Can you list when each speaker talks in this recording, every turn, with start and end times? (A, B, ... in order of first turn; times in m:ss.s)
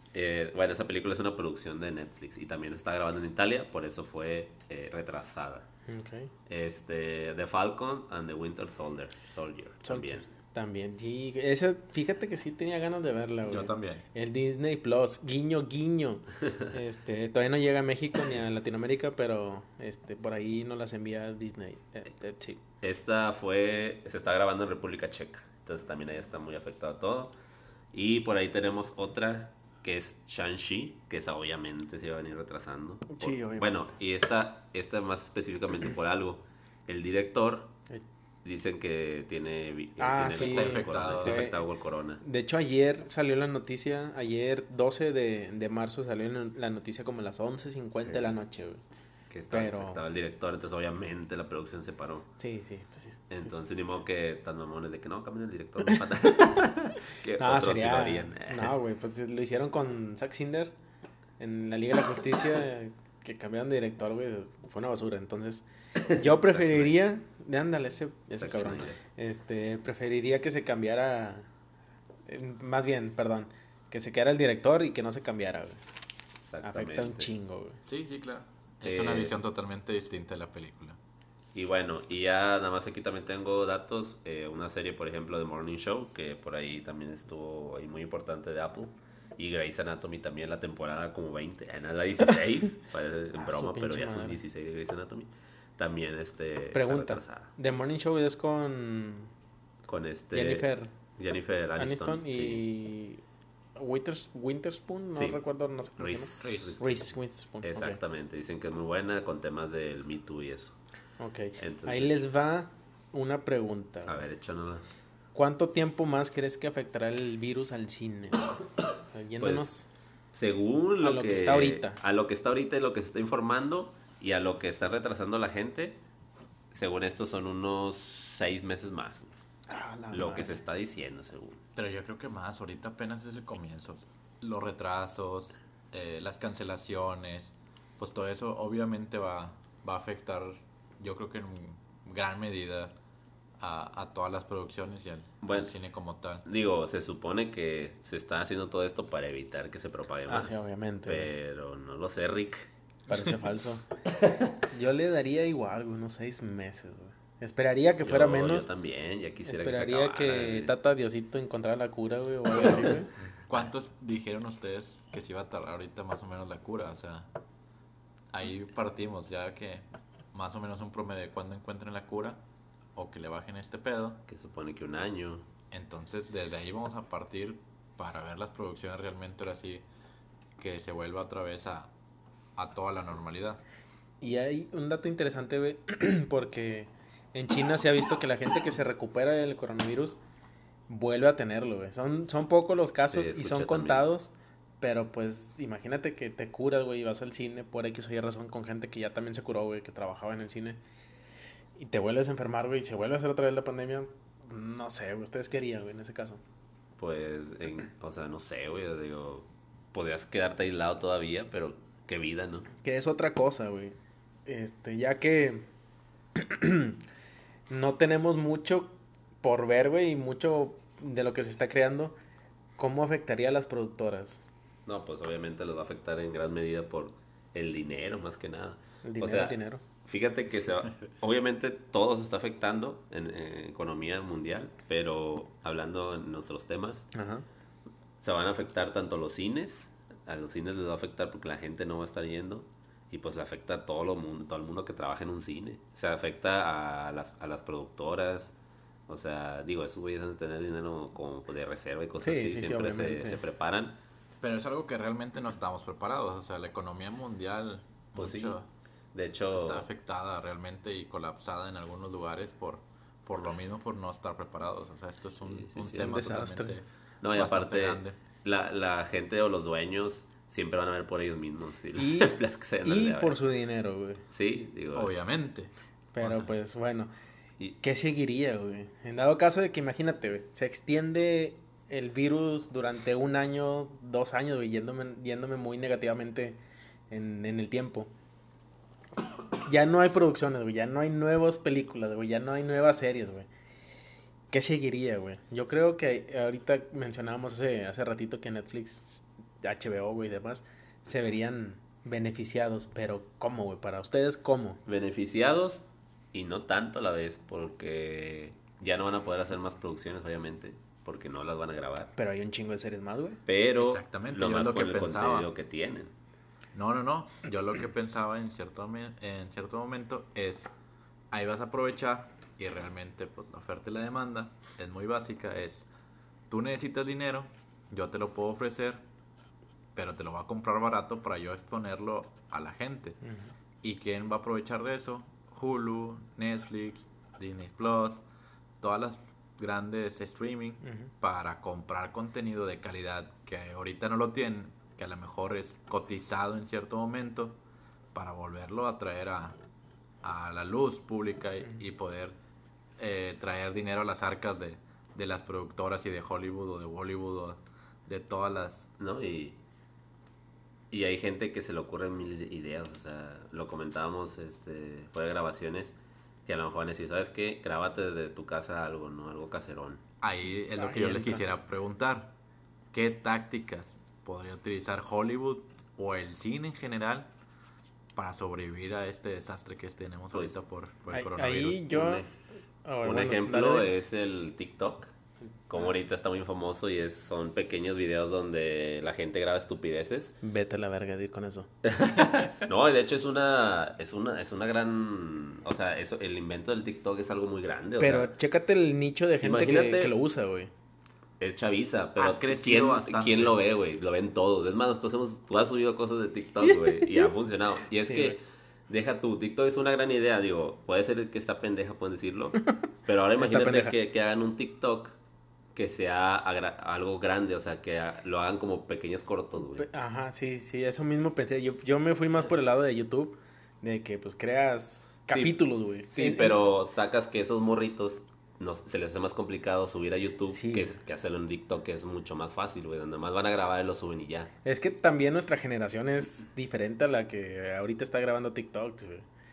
0:00.1-0:05.6 A
0:05.9-0:06.3 B
0:06.5-0:10.3 A
0:09.8-0:22.6 B
0:13.5-0:14.0 C
0:22.8-0:27.3 A
0:27.9-0:37.7 A
0:33.1-0:33.9 B
0:38.4-0:42.2 A
0:40.0-0:41.6 B
0:40.3-0:41.5 C
0:42.2-0:48.8 B
0:48.0-0:48.3 A
0:49.3-0:52.3 A
0:49.5-0:50.0 B
0:52.4-0:53.6 B
0:53.3-0:58.7 A
0:57.4-1:00.7 B
1:01.4-1:11.5 B
1:06.1-1:06.9 A
1:08.4-1:09.0 A
1:12.3-1:15.8 B
1:16.4-1:17.3 A
1:16.6-1:17.8 B
1:17.8-1:21.0 C
1:18.8-1:19.3 A
1:21.5-1:37.5 A
1:33.3-1:34.4 B
1:36.7-1:39.3 B
1:39.9-1:42.6 A
1:40.3-1:40.9 B
1:41.8-1:43.2 B
1:43.8-1:48.0 B
1:45.1-1:45.4 A
1:46.0-1:47.0 A
1:46.4-1:46.8 C
1:47.6-1:50.8 A
1:51.2-1:54.2 B
1:51.6-1:52.2 A
1:54.1-1:54.8 A
1:55.3-1:59.9 B
1:59.4-1:59.7 A
2:00.3-2:06.0 A
2:01.0-2:02.0 B
2:06.7-2:09.3 A
2:09.7-2:10.6 B
2:10.1-2:11.6 A
2:11.8-2:22.9 C
2:23.6-2:26.4 C
2:25.4-2:25.7 A
2:26.4-2:32.7 A
2:30.3-2:31.3 B
2:33.1-2:33.8 B
2:34.7-2:38.7 B
2:38.0-2:40.7 A
2:39.4-2:43.1 B
2:42.6-2:47.3 C
2:48.3-2:52.4 C
2:52.9-2:54.2 C
2:54.3-2:55.4 A
2:55.7-2:59.8 C
3:00.6-3:01.9 C
3:02.6-3:03.6 C
3:04.2-3:10.2 B
3:10.9-3:20.8 B
3:13.1-3:14.1 A
3:21.8-3:26.4 B
3:27.0-3:32.7 A
3:32.8-3:35.7 B
3:36.3-3:37.0 B
3:37.7-3:42.2 B
3:42.8-3:44.5 B
3:44.8-3:57.1 A
3:49.0-3:49.8 B
3:57.1-3:57.4 B
3:58.2-4:08.5 A
4:09.1-4:14.0 A
4:12.2-4:13.4 B
4:14.4-4:18.6 C
4:18.2-4:18.6 A
4:19.1-4:19.9 A
4:19.5-4:28.2 C
4:25.4-4:26.1 A
4:25.9-4:26.8 B
4:27.2-4:33.3 A
4:32.0-4:34.2 B
4:34.3-4:35.1 A
4:34.9-4:36.5 C
4:36.1-4:37.1 B
4:37.8-4:46.6 B
4:47.1-4:48.1 B
4:49.6-4:53.5 B
4:54.5-5:04.8 B
5:04.8-5:12.1 A
5:12.1-5:13.4 B
5:13.4-5:16.1 A
5:13.8-5:15.5 C
5:16.7-5:20.7 C
5:21.3-5:25.8 C
5:26.5-5:29.0 C
5:29.9-5:33.2 C
5:33.2-5:33.5 B
5:33.8-5:38.2 C
5:38.8-5:47.6 C
5:48.1-5:49.6 C
5:50.2-5:52.3 C
5:53.0-5:58.9 C
5:59.0-5:59.6 A
6:00.9-6:10.0 A
6:10.2-6:12.3 C
6:10.7-6:11.4 B
6:12.9-6:17.3 C
6:18.1-6:21.9 C
6:21.1-6:22.2 B
6:21.9-6:22.3 A
6:22.8-6:23.9 B
6:23.0-6:25.1 A
6:25.7-6:30.4 A
6:30.4-6:31.7 B
6:31.8-6:38.3 A
6:38.0-6:40.7 B
6:39.4-6:40.1 A
6:41.4-6:55.2 A
6:42.2-6:43.6 C
6:46.8-6:47.3 B
6:48.0-6:48.4 B
6:53.4-6:53.9 B
6:55.7-6:59.9 A
6:59.8-7:06.6 B
7:05.3-7:05.6 A
7:06.1-7:14.5 A
7:10.5-7:11.0 B
7:14.6-7:19.2 B